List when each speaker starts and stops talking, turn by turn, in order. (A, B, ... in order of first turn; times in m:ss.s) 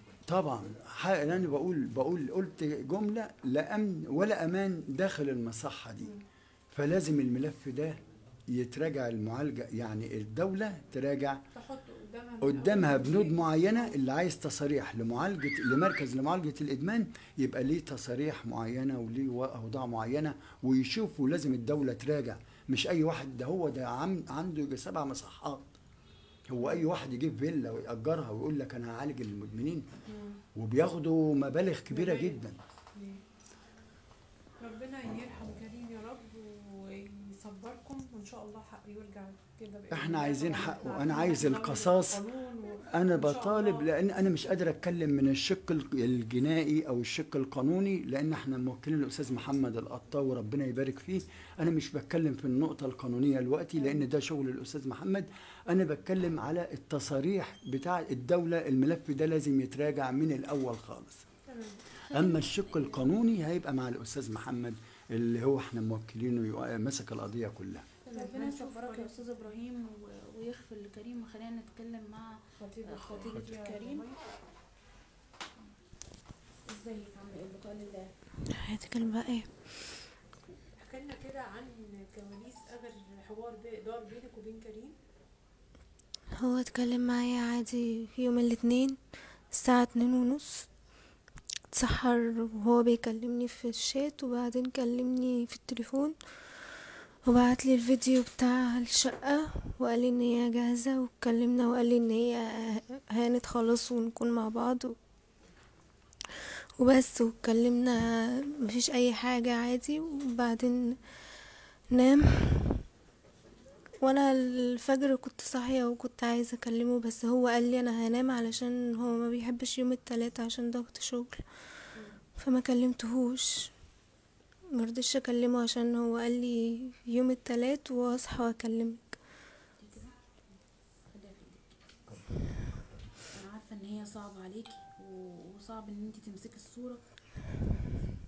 0:00.3-0:06.1 A
0:06.7-0:11.4 A
0:11.5-0:14.0 B
0:12.4-0:25.7 A
0:26.5-0:29.9 A
0:30.1-0:30.4 B
0:30.5-0:32.6 A
0:31.9-0:32.4 B
0:32.9-0:33.2 B
0:34.6-0:43.9 B
0:39.9-0:42.2 A
0:42.9-1:01.2 A
0:53.8-0:54.0 B
1:01.5-1:01.8 B
1:02.1-1:03.0 C
1:02.1-1:07.9 A
1:08.0-1:09.1 B
1:08.1-1:14.1 C
1:12.6-1:14.2 B
1:16.6-1:18.1 C
1:18.5-1:19.5 D
1:20.8-1:24.9 B
1:26.4-1:29.0 D
1:29.5-1:30.7 D
1:31.7-1:36.1 D
1:37.2-1:45.0 D
1:46.8-1:51.0 D
1:51.9-1:52.8 D
1:54.0-2:01.4 D
2:02.4-2:03.7 D
2:04.7-2:09.2 D
2:09.8-2:10.1 C
2:11.1-2:11.8 C
2:13.3-2:17.0 C